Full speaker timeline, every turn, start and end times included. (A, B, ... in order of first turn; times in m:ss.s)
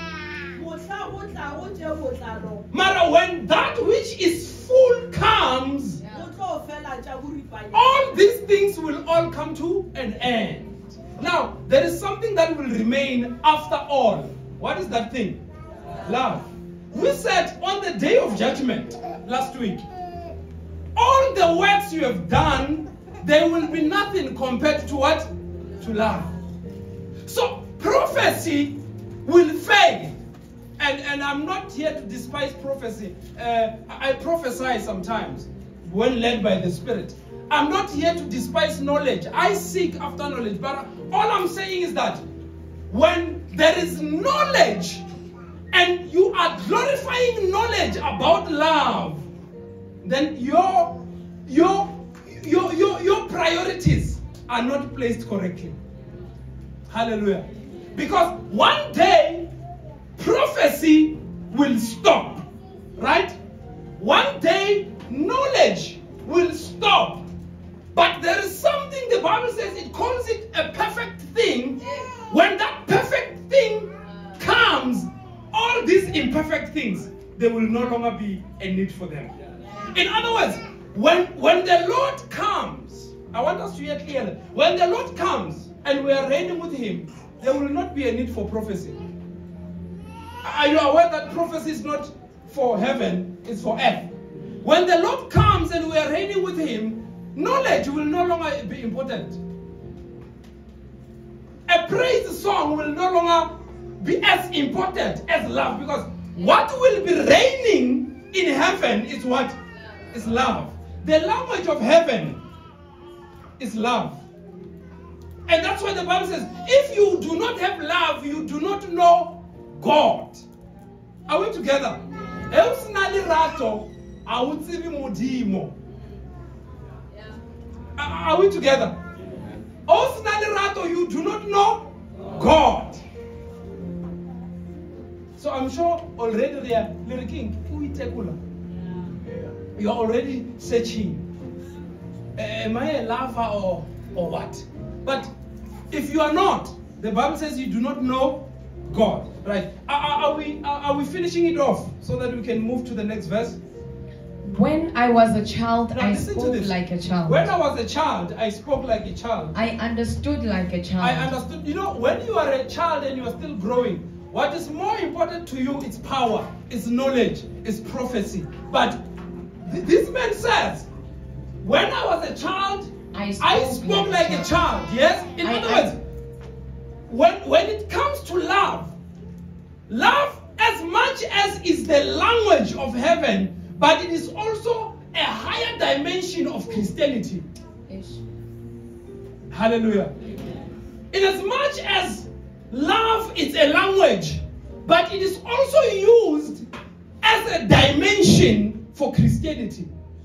0:00.5-0:02.7 A
0:02.7-0:06.0 B
0:06.1-0:08.2 A
0:07.7-0:15.4 B
0:16.0-0:19.8 B
0:21.0-0:25.3 B
0:25.8-0:26.3 B
0:27.2-0:30.2 B
0:30.8-0:42.2 B
0:42.9-0:45.0 B
0:45.7-0:49.2 B
0:50.0-0:55.8 B
0:56.9-0:59.5 B
1:00.2-1:03.4 B
1:04.0-1:07.3 B
1:07.9-1:19.3 B
1:11.8-1:12.1 C
1:19.9-1:29.0 B
1:30.4-1:39.4 B
1:41.7-1:49.6 B
1:50.1-1:52.4 B
1:53.6-1:54.2 B
1:55.5-2:00.4 B
2:01.3-2:05.7 B
2:08.0-2:09.0 B
2:09.9-2:13.0 B
2:15.4-2:18.4 B
2:19.8-2:21.2 B
2:22.4-2:25.3 B
2:25.9-2:33.6 B
2:34.4-2:37.5 C
2:35.9-2:39.6 B
2:39.5-2:41.3 C
2:41.0-2:49.0 B
2:49.6-2:50.9 B
2:51.6-2:56.0 B
2:53.1-2:54.5 C
2:55.4-2:55.9 C
2:57.1-2:59.0 B
2:59.9-3:07.4 B
3:07.9-3:08.2 C
3:09.5-3:10.1 B
3:11.1-3:16.6 B
3:17.2-3:19.9 B